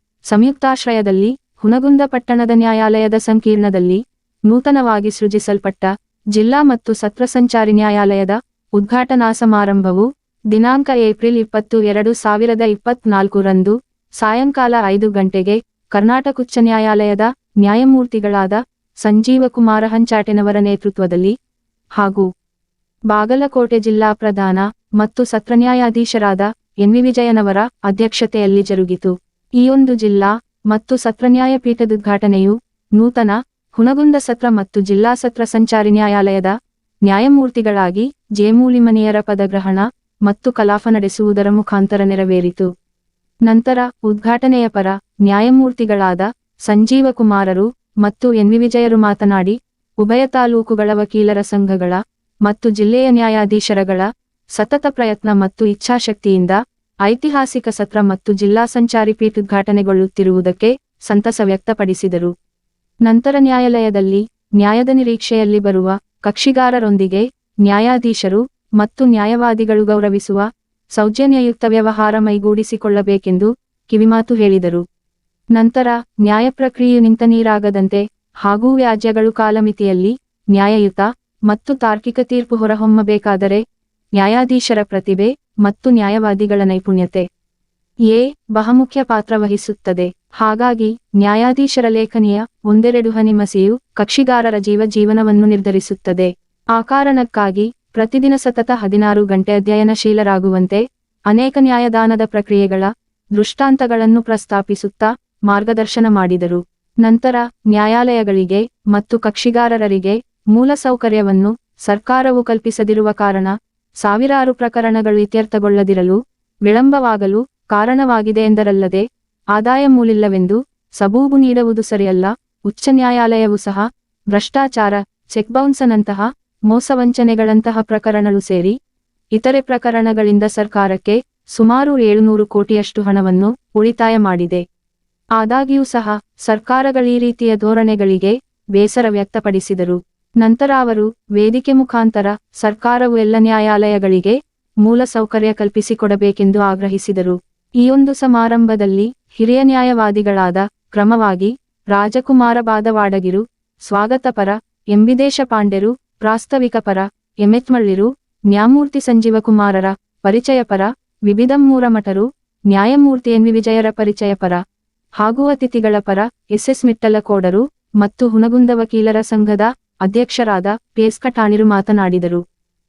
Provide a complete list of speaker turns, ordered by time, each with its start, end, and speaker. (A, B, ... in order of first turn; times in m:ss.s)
0:00.3-0:21.3 A
0:22.0-0:22.3 A
0:23.1-0:36.6 A
0:37.1-0:42.7 A
0:43.5-1:02.3 A
1:03.1-1:10.4 A
1:11.0-1:14.8 A
1:15.6-1:23.6 A
1:24.2-1:27.3 A
1:28.1-1:59.0 A
1:59.6-2:08.8 A
2:09.4-2:14.6 A
2:15.4-2:44.6 A
2:45.2-2:52.4 A